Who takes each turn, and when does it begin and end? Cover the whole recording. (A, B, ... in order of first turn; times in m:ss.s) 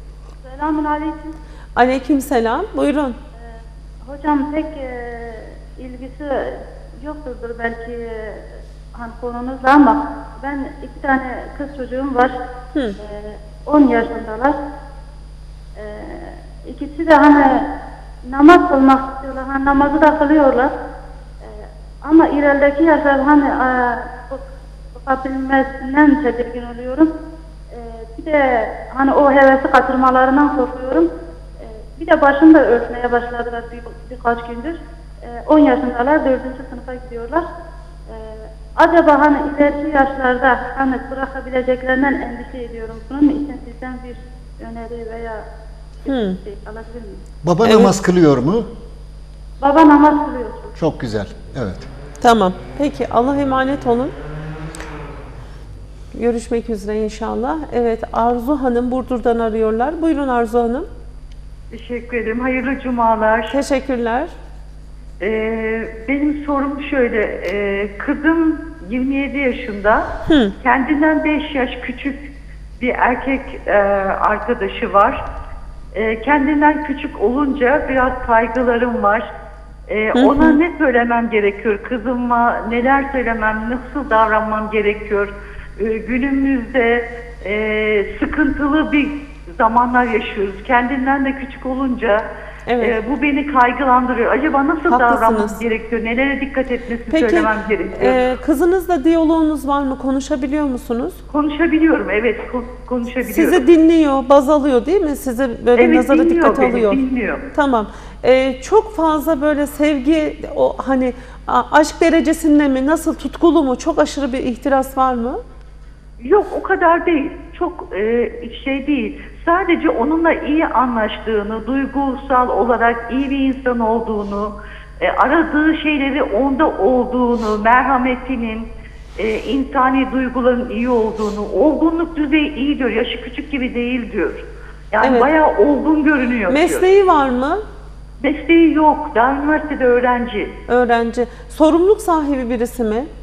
0:00.5-0:01.2 A
0:00.5-0:01.3 B
0:01.8-0:03.2 C
0:04.1-0:04.8 A
0:04.1-0:06.6 B
0:05.8-0:06.2 A
0:07.0-0:08.0 A
0:07.1-0:07.5 B
0:09.0-0:10.0 B
0:09.0-0:12.3 A
0:10.5-0:12.3 B
0:13.3-0:14.5 B
0:13.7-0:14.4 A
0:15.8-0:17.4 B
0:16.7-0:17.2 A
0:18.3-0:20.7 B
0:18.3-0:20.3 A
0:22.1-0:22.9 A
0:22.1-0:24.4 B
0:25.0-0:27.1 B
0:25.8-0:27.0 A
0:29.0-0:31.1 B
0:29.0-0:30.3 A
0:32.0-0:34.7 B
0:33.1-0:33.4 A
0:34.0-0:34.6 A
0:35.3-0:37.4 B
0:35.7-0:37.4 A
0:38.8-0:45.3 B
0:40.7-0:42.1 A
0:43.0-0:44.1 A
0:44.6-0:45.3 A
0:46.1-0:46.4 C
0:46.1-0:47.1 B
0:46.5-0:47.0 A
0:47.4-0:48.7 D
0:47.6-0:47.9 C
0:49.6-0:50.6 B
0:50.8-0:51.9 D
0:52.2-0:54.1 C
0:56.1-1:00.9 C
1:01.7-1:03.6 A
1:03.5-1:04.3 C
1:05.2-1:10.1 A
1:10.3-1:10.6 C
1:10.6-1:12.2 A
1:12.8-1:15.2 A
1:15.9-1:19.2 A
1:19.9-1:32.2 A
1:20.2-1:20.6 C
1:32.7-1:33.0 C
1:32.8-1:38.2 A
1:34.9-1:35.6 C
1:37.1-1:41.2 C
1:41.3-1:43.6 A
1:43.2-1:47.0 C
1:45.8-1:47.4 A
1:47.5-1:55.4 C
1:56.2-2:16.9 A
2:15.0-2:15.3 C
2:16.5-2:17.6 C
2:18.2-2:20.5 A
2:20.7-2:23.1 C